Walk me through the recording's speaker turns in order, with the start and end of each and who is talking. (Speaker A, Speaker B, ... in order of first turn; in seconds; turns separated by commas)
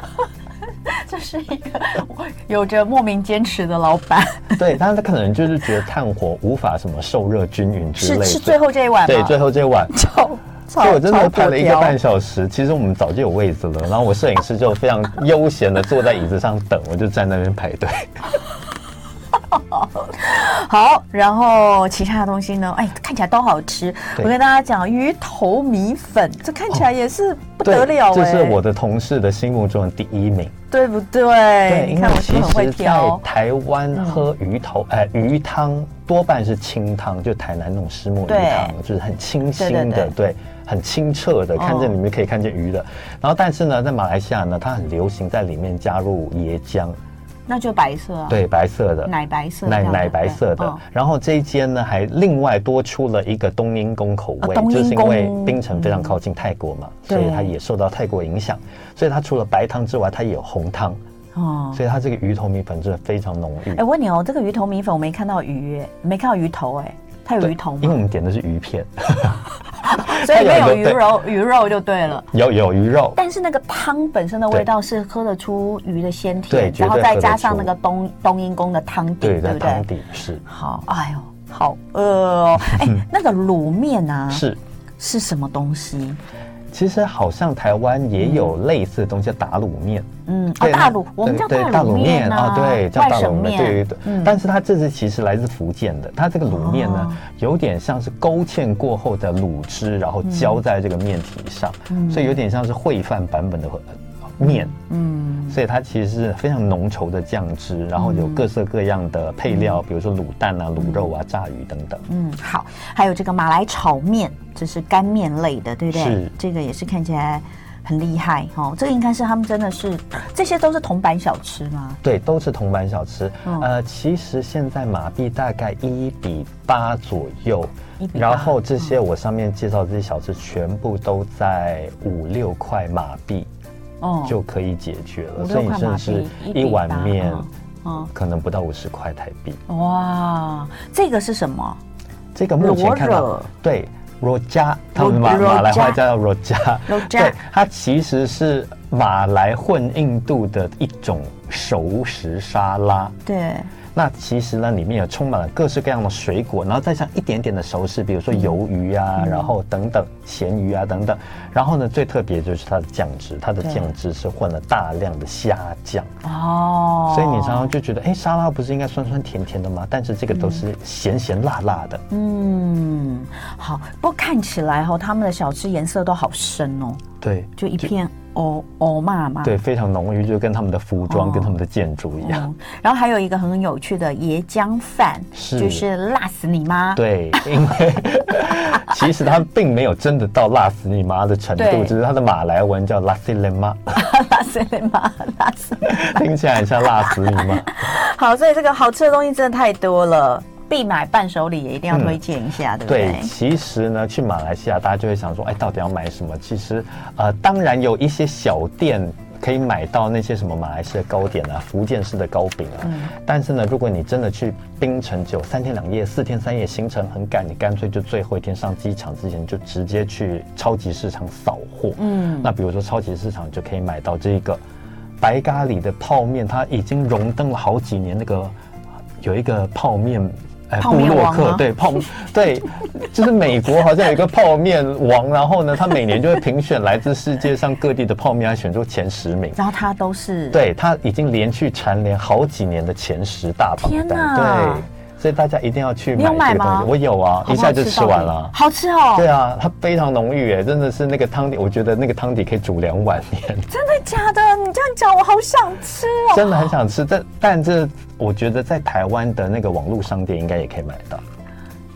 Speaker A: 0.9-4.7, Speaker B: 4.6-9.9, Speaker A: 8.0-9.4, Speaker A: 9.9-12.0, Speaker B: 10.8-18.2, Speaker A: 19.5-28.6, Speaker B: 27.6-30.5, Speaker A: 30.7-33.2, Speaker B: 31.7-47.0, Speaker A: 33.9-34.2, Speaker A: 38.3-38.7, Speaker A: 39.6-40.1, Speaker A: 41.6-41.9, Speaker A: 47.5-48.4, Speaker B: 48.3-49.1, Speaker A: 49.0-50.8, Speaker B: 49.6-61.0, Speaker A: 54.4-56.2, Speaker A: 57.1-57.5, Speaker A: 61.4-61.8, Speaker B: 61.7-63.8, Speaker A: 63.7-68.0, Speaker B: 67.4-71.0, Speaker A: 69.8-72.3, Speaker B: 72.3-73.2, Speaker A: 73.2-79.9, Speaker B: 76.5-77.7, Speaker B: 79.2-80.4, Speaker A: 80.5-84.5, Speaker B: 84.3-84.6, Speaker A: 85.0-86.2, Speaker B: 86.7-90.1, Speaker A: 88.2-88.5, Speaker A: 90.3-94.3, Speaker B: 90.6-104.7, Speaker A: 96.5-97.2, Speaker A: 100.2-100.6, Speaker A: 101.9-102.3, Speaker A: 104.4-105.6, Speaker B: 105.5-112.0, Speaker A: 108.0-108.4, Speaker A: 110.8-111.0, Speaker A: 112.1-122.0, Speaker B: 115.9-116.3, Speaker B: 122.0-133.5, Speaker A: 128.0-128.8, Speaker A: 134.0-134.4, Speaker B: 134.2-137.5, Speaker A: 135.4-138.1, Speaker B: 138.1-139.6, Speaker A: 139.7-141.8, Speaker B: 142.3-153.2, Speaker A: 142.6-143.5, Speaker A: 145.0-146.0, Speaker A: 146.9-147.4, Speaker A: 153.3-153.7, Speaker B: 153.9-166.1, Speaker A: 158.3-158.6, Speaker A: 159.2-159.5, Speaker A: 166.2-167.7, Speaker B: 167.1-172.0, Speaker A: 170.3-170.6, Speaker A: 172.1-177.0, Speaker B: 177.2-177.9, Speaker A: 177.6-179.5, Speaker B: 179.4-182.5, Speaker A: 181.1-181.5, Speaker A: 182.2-187.5, Speaker B: 185.3-185.8, Speaker B: 187.0-193.9, Speaker A: 191.6-191.9, Speaker A: 193.9-203.3, Speaker B: 195.9-197.8, Speaker B: 201.9-202.2, Speaker B: 202.9-224.6, Speaker A: 212.8-213.1, Speaker A: 222.0-222.5, Speaker B: 225.2-228.5, Speaker B: 229.2-239.6, Speaker A: 230.8-231.7, Speaker A: 239.6-240.6, Speaker B: 240.5-248.5, Speaker A: 243.8-244.9, Speaker A: 246.2-246.9, Speaker A: 247.4-249.3, Speaker B: 249.2-253.7, Speaker A: 253.7-256.7, Speaker B: 256.3-261.2